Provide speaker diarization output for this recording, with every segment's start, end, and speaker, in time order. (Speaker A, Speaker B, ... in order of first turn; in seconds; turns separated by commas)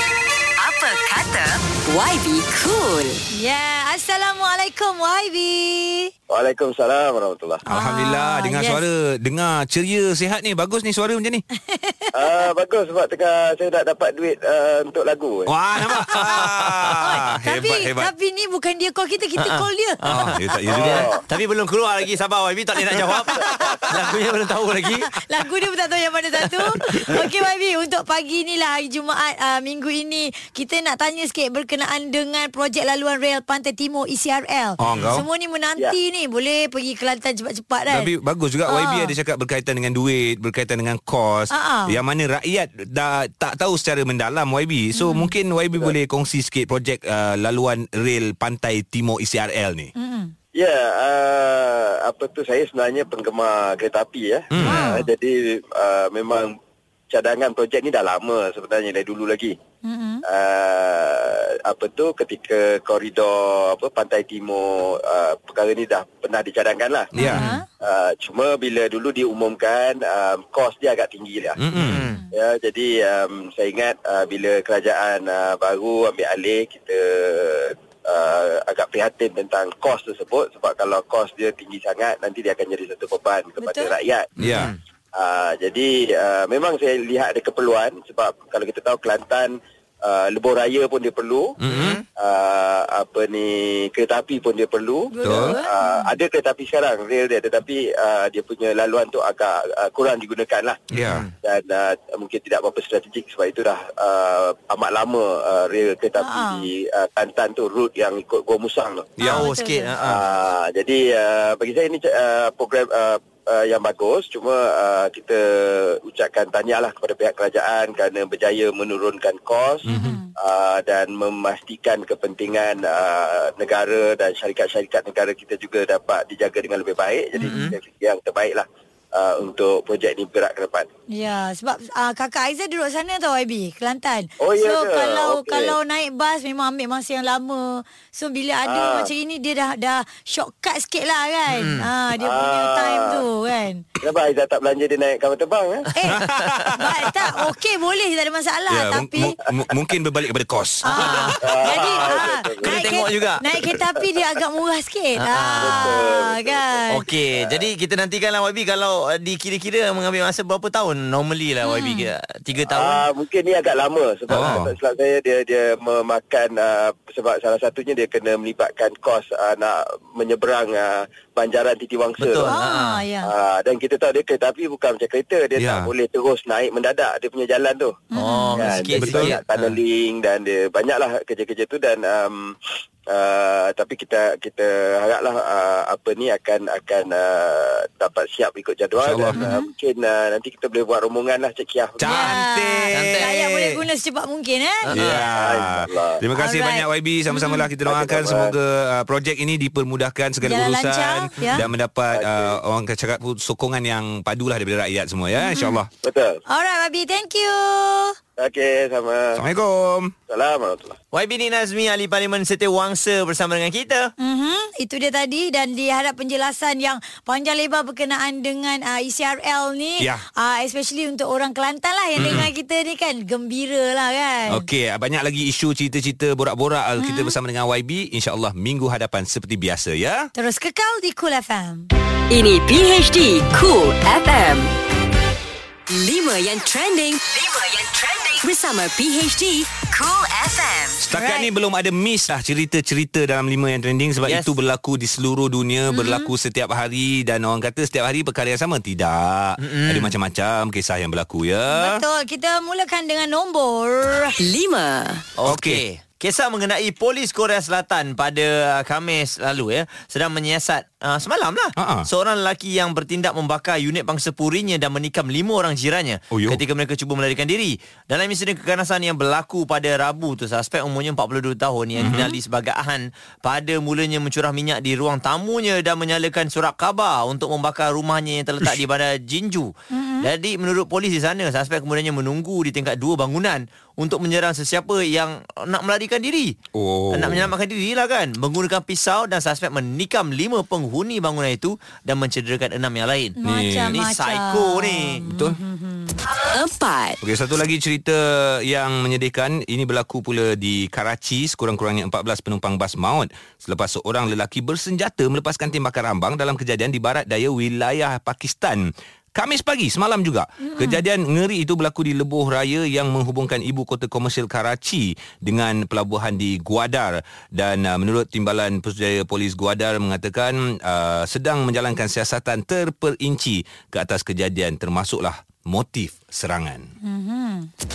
Speaker A: 0.6-3.2, Speaker B: 3.3-6.1, Speaker C: 6.3-7.6, Speaker B: 7.7-8.8, Speaker D: 7.7-11.4, Speaker B: 11.7-12.1, Speaker C: 12.1-15.5, Speaker D: 15.5-18.1, Speaker B: 15.9-16.4, Speaker E: 16.1-16.9, Speaker B: 17.0-20.0, Speaker E: 19.4-25.1, Speaker D: 20.1-21.1, Speaker C: 20.7-21.2, Speaker B: 23.4-23.7, Speaker B: 25.0-38.1, Speaker E: 26.6-27.3, Speaker D: 34.8-35.2, Speaker E: 34.8-35.1, Speaker D: 37.9-49.9, Speaker B: 38.7-39.1, Speaker B: 41.5-42.0, Speaker B: 44.9-45.3, Speaker B: 50.0-50.3, Speaker C: 50.5-56.5, Speaker D: 54.5-54.9, Speaker B: 54.6-55.1, Speaker C: 57.1-59.5, Speaker B: 59.8-60.2, Speaker C: 60.2-67.1, Speaker D: 67.1-67.5, Speaker B: 67.2-67.7, Speaker E: 67.2-67.6, Speaker C: 67.8-71.6, Speaker D: 71.6-72.1, Speaker E: 71.7-72.2, Speaker C: 72.3-84.3, Speaker B: 83.6-84.0, Speaker D: 84.4-84.7, Speaker E: 84.4-84.8, Speaker C: 85.2-91.6, Speaker D: 91.6-92.0, Speaker E: 91.7-92.0, Speaker C: 92.2-100.8, Speaker B: 95.1-96.1, Speaker D: 95.2-95.6, Speaker D: 100.9-101.2, Speaker E: 100.9-101.3, Speaker C: 101.4-109.2, Speaker B: 106.2-106.7, Speaker D: 109.2-109.5, Speaker E: 109.2-110.2, Speaker B: 109.2-109.9, Speaker C: 110.0-130.9, Speaker D: 119.9-120.2, Speaker B: 119.9-120.3, Speaker E: 127.4-127.8, Speaker B: 131.1-143.8, Speaker C: 134.4-135.8, Speaker C: 138.7-139.1, Speaker E: 141.5-141.9, Speaker C: 142.2-143.2, Speaker C: 144.0-145.9, Speaker B: 145.9-149.3, Speaker D: 146.1-147.3, Speaker E: 146.1-146.7, Speaker D: 148.7-151.3, Speaker B: 150.8-157.0, Speaker E: 150.9-151.5, Speaker C: 151.4-152.8, Speaker E: 152.6-153.4, Speaker E: 155.2-155.9, Speaker C: 155.6-157.6, Speaker E: 156.9-163.0, Speaker B: 161.6-162.1, Speaker C: 162.7-172.6, Speaker D: 164.3-164.7, Speaker E: 172.2-173.0, Speaker B: 172.5-173.3, Speaker C: 173.2-178.0, Speaker D: 175.6-175.9, Speaker B: 178.1-178.9, Speaker E: 178.1-179.7, Speaker C: 178.5-182.6, Speaker D: 178.9-179.4, Speaker C: 183.1-192.2, Speaker D: 189.0-189.4, Speaker B: 189.3-189.7, Speaker D: 192.0-193.3, Speaker B: 192.1-194.9, Speaker E: 192.1-193.8, Speaker E: 194.8-195.2, Speaker D: 194.9-205.9, Speaker C: 195.1-196.2, Speaker B: 196.3-197.7, Speaker C: 197.8-198.5, Speaker B: 200.4-201.6, Speaker C: 202.1-202.6, Speaker B: 205.4-205.8, Speaker C: 206.0-206.4, Speaker B: 206.5-208.2, Speaker C: 208.4-209.4, Speaker D: 209.3-210.1, Speaker C: 210.3-210.9, Speaker E: 211.1-214.1, Speaker B: 214.2-224.6, Speaker D: 222.2-222.5, Speaker D: 224.5-230.3, Speaker B: 227.0-227.3, Speaker B: 230.3-231.9, Speaker A: 232.3-234.7, Speaker A: 235.9-241.0, Speaker D: 241.0-252.0, Speaker B: 241.1-241.5, Speaker E: 244.2-244.5, Speaker B: 245.9-246.3, Speaker E: 249.6-250.1, Speaker B: 251.7-254.3, Speaker A: 254.4-255.2, Speaker E: 255.4-286.6, Speaker D: 255.4-255.8, Speaker D: 261.8-262.1, Speaker D: 266.3-266.6, Speaker D: 272.0-272.4, Speaker B: 279.9-280.3, Speaker D: 286.7-287.5, Speaker E: 287.1-293.4, Speaker B: 293.4-296.1, Speaker D: 293.4-294.0, Speaker E: 293.9-295.2, Speaker D: 295.2-295.6, Speaker A: 296.4-297.2, Speaker D: 297.2-326.9, Speaker B: 310.6-311.0, Speaker B: 327.0-327.7